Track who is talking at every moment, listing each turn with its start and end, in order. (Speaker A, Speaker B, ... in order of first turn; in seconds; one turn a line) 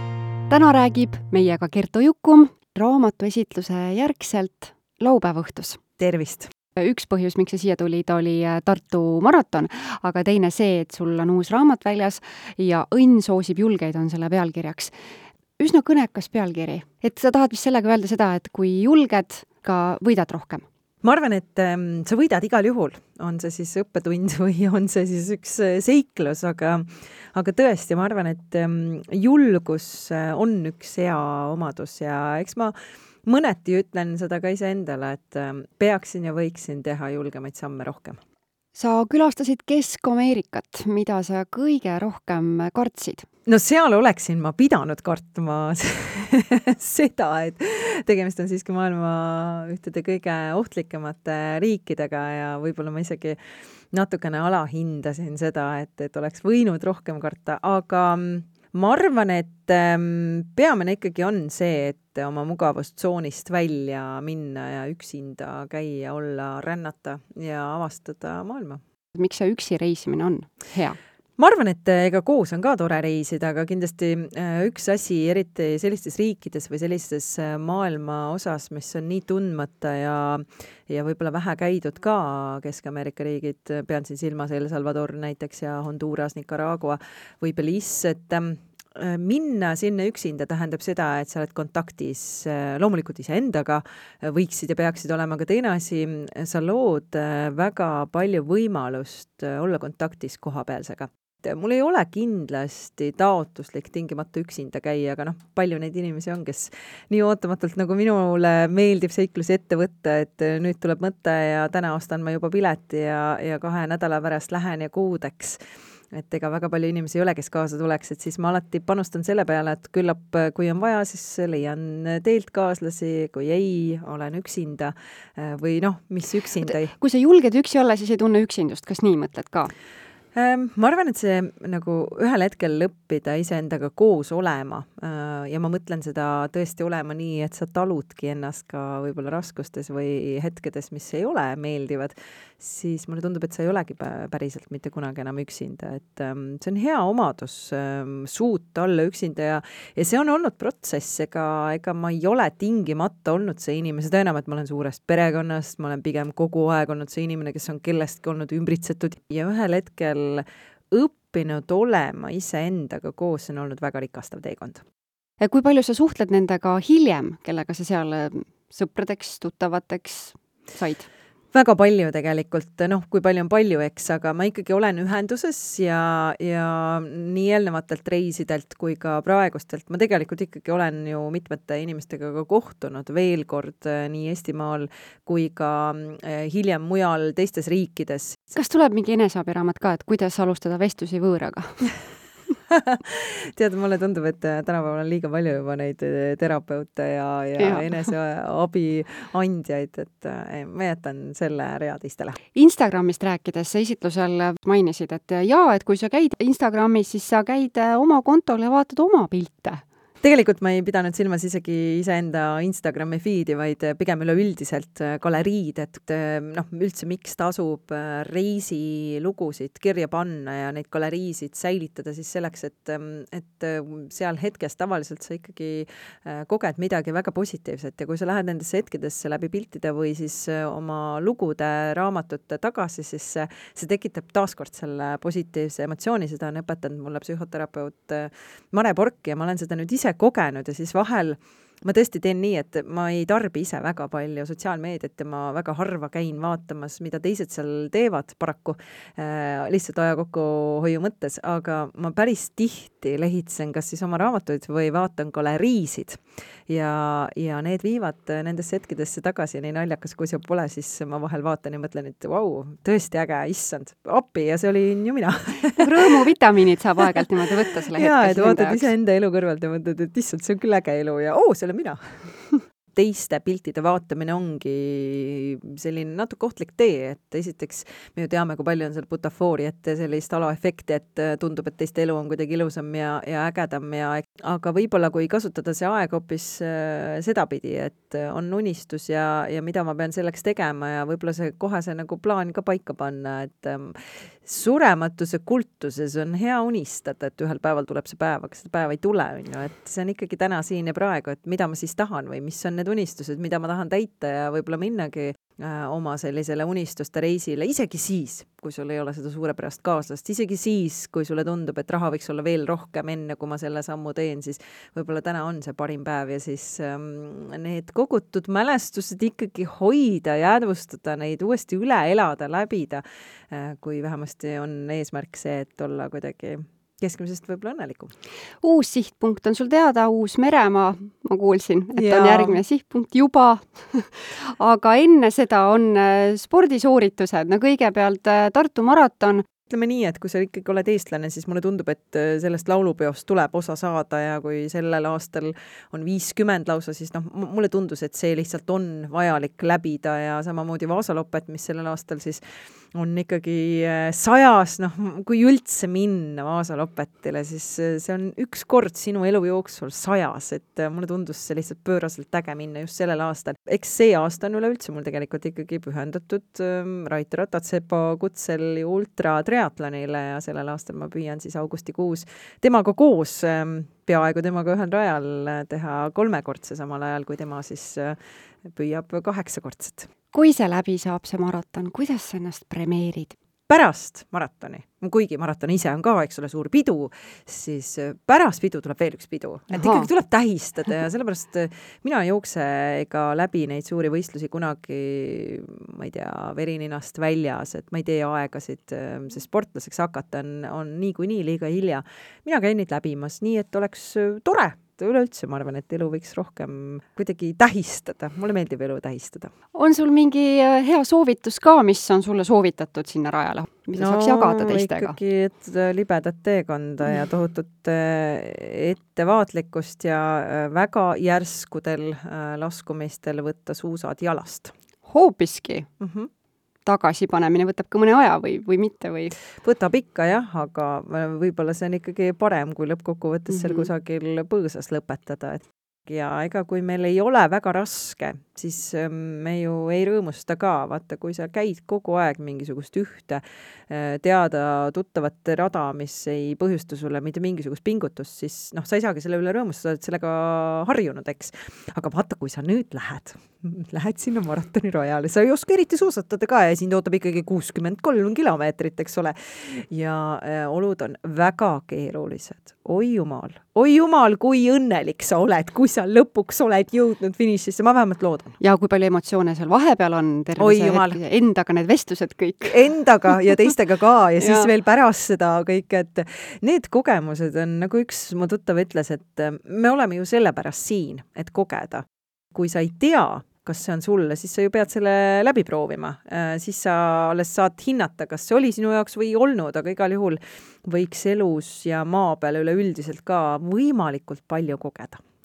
Speaker A: 0.5-5.8
Speaker B: 6.0-6.5
Speaker A: 6.8-14.9
Speaker A: 15.6-20.6
Speaker B: 21.0-32.7
Speaker B: 33.2-38.2
Speaker A: 38.7-43.3
Speaker B: 43.5-53.4
Speaker B: 53.9-68.8
Speaker A: 69.1-71.0
Speaker B: 71.4-115.6
Speaker B: 116.1-126.9
Speaker A: 126.6-129.7
Speaker B: 130.3-164.8
Speaker A: 165.4-171.1
Speaker B: 171.5-188.5
Speaker A: 188.5-191.9
Speaker B: 192.7-202.4
Speaker A: 197.6-198.1
Speaker A: 202.5-209.8
Speaker B: 210.2-266.1
Speaker A: 265.8-268.9
Speaker B: 267.0-267.3
Speaker B: 267.9-272.3
Speaker B: 272.9-328.1
Speaker A: 328.6-339.4
Speaker B: 331.9-332.6
Speaker B: 339.7-352.4
Speaker B: 352.9-380.1
Speaker A: 380.3-383.3
Speaker B: 383.7-409.5
Speaker A: 389.7-390.1
Speaker A: 409.7-415.2
Speaker B: 413.9-424.7
Speaker A: 425.0-425.9
Speaker B: 426.0-426.3
Speaker A: 426.9-429.3
Speaker B: 429.6-468.6
Speaker A: 433.5-433.9
Speaker A: 468.6-473.5
Speaker B: 470.6-471.2
Speaker B: 472.6-495.2
Speaker A: 474.4-474.7